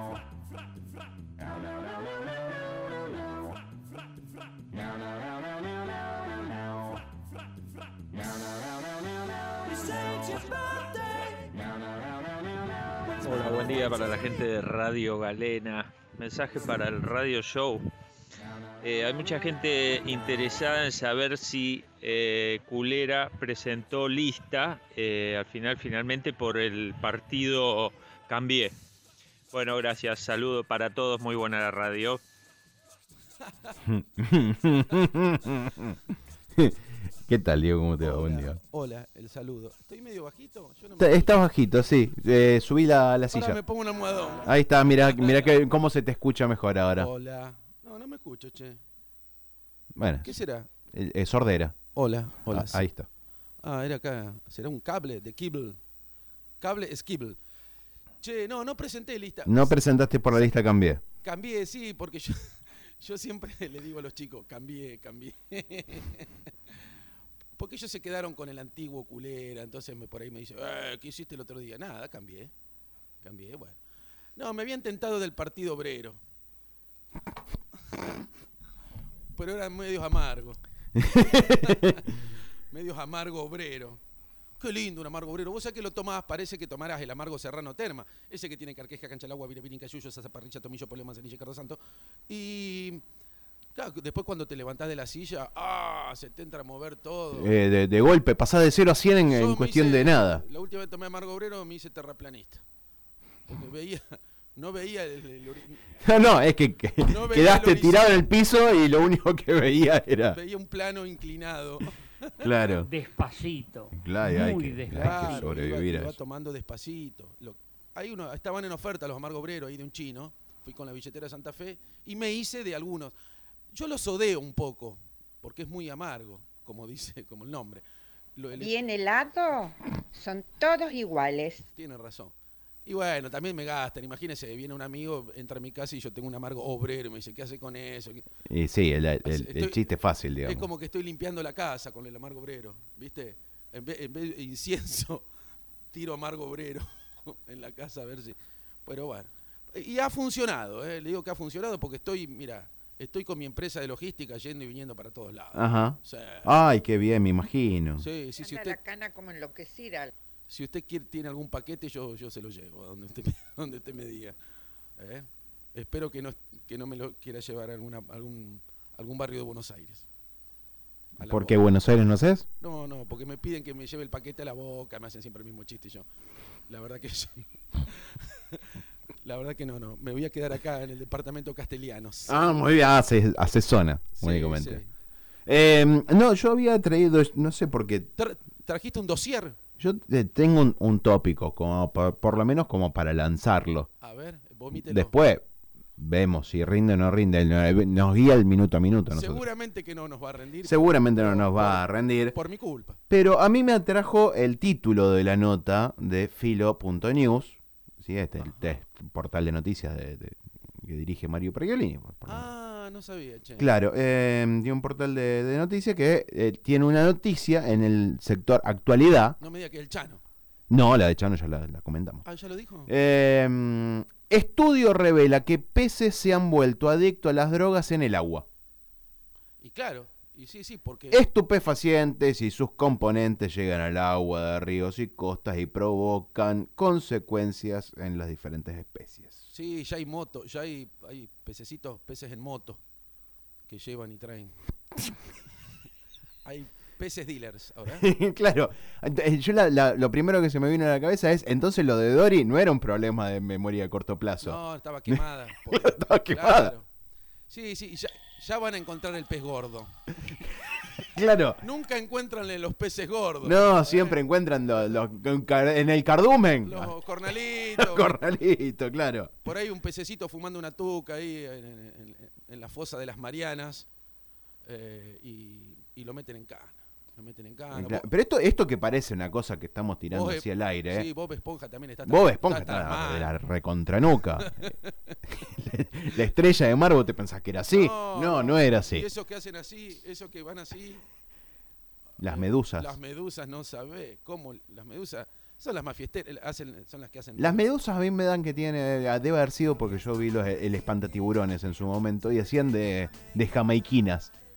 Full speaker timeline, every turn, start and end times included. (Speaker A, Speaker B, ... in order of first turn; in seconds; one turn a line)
Speaker A: 13.2-17.9
Speaker A: 18.8-28.7
Speaker A: 29.5-32.2
Speaker B: 33.5-33.8
Speaker C: 33.8-36.0
Speaker B: 34.7-35.1
Speaker C: 36.5-38.6
Speaker B: 38.0-41.3
Speaker C: 41.0-43.6
Speaker B: 43.3-45.6
Speaker C: 44.4-47.1
Speaker B: 47.0-48.8
Speaker C: 50.0-50.4
Speaker B: 50.2-50.7
Speaker C: 50.9-51.8
Speaker B: 52.0-52.9
Speaker C: 52.5-53.1
Speaker B: 53.6-55.8
Speaker B: 56.6-57.4
Speaker B: 58.2-60.5
Speaker C: 59.5-61.0
Speaker B: 61.2-66.5
Speaker B: 67.6-72.5
Speaker B: 73.2-73.8
Speaker B: 74.4-76.2
Speaker B: 79.3-84.0
Speaker C: 81.0-82.0
Speaker B: 84.6-93.0
Speaker B: 93.8-97.6
Speaker C: 97.3-100.4
Speaker B: 99.2-102.6
Speaker B: 103.5-105.9
Speaker C: 106.0-110.4
Speaker B: 107.1-108.2
Speaker B: 110.3-112.7
Speaker C: 112.4-112.9
Speaker D: 112.8-115.5
Speaker C: 114.0-116.2
Speaker B: 114.9-123.1
Speaker B: 123.7-127.8
Speaker B: 128.4-128.7
Speaker E: 128.5-131.7
Speaker B: 131.7-132.3
Speaker B: 132.9-138.2
Speaker C: 138.5-140.7
Speaker B: 139.2-139.8
Speaker B: 140.4-145.2
Speaker B: 145.9-156.5
Speaker C: 155.5-158.1
Speaker B: 158.0-158.8
Speaker E: 158.4-160.1
Speaker B: 160.5-164.4
Speaker B: 165.0-170.1
Speaker B: 171.2-171.6
Speaker C: 171.2-172.5
Speaker B: 172.6-176.1
Speaker B: 176.7-182.4
Speaker C: 182.3-184.8
Speaker B: 184.2-184.9
Speaker C: 185.5-188.1
Speaker B: 188.2-189.6
Speaker C: 189.8-193.9
Speaker B: 194.0-195.2
Speaker C: 194.7-195.4
Speaker C: 196.0-199.4
Speaker B: 199.1-203.0
Speaker C: 200.6-202.3
Speaker C: 203.1-212.5
Speaker B: 208.4-208.8
Speaker B: 212.2-213.7
Speaker C: 213.6-219.4
Speaker B: 219.4-220.2
Speaker C: 220.7-222.2
Speaker B: 222.2-222.9
Speaker C: 222.9-228.5
Speaker B: 229.6-231.2
Speaker C: 231.1-239.4
Speaker B: 239.5-242.8
Speaker B: 243.7-244.6
Speaker B: 246.4-248.1
Speaker C: 247.9-256.7
Speaker B: 254.4-256.9
Speaker B: 257.5-260.0
Speaker C: 261.0-261.6
Speaker B: 261.6-264.2
Speaker C: 263.4-269.4
Speaker B: 266.6-268.2
Speaker B: 269.4-273.9
Speaker B: 274.6-278.1
Speaker C: 277.7-281.1
Speaker B: 280.1-283.3
Speaker C: 282.1-284.7
Speaker B: 284.4-285.2
Speaker C: 285.3-289.1
Speaker B: 287.7-291.0
Speaker C: 292.2-292.9
Speaker B: 292.2-297.6
Speaker C: 297.4-304.3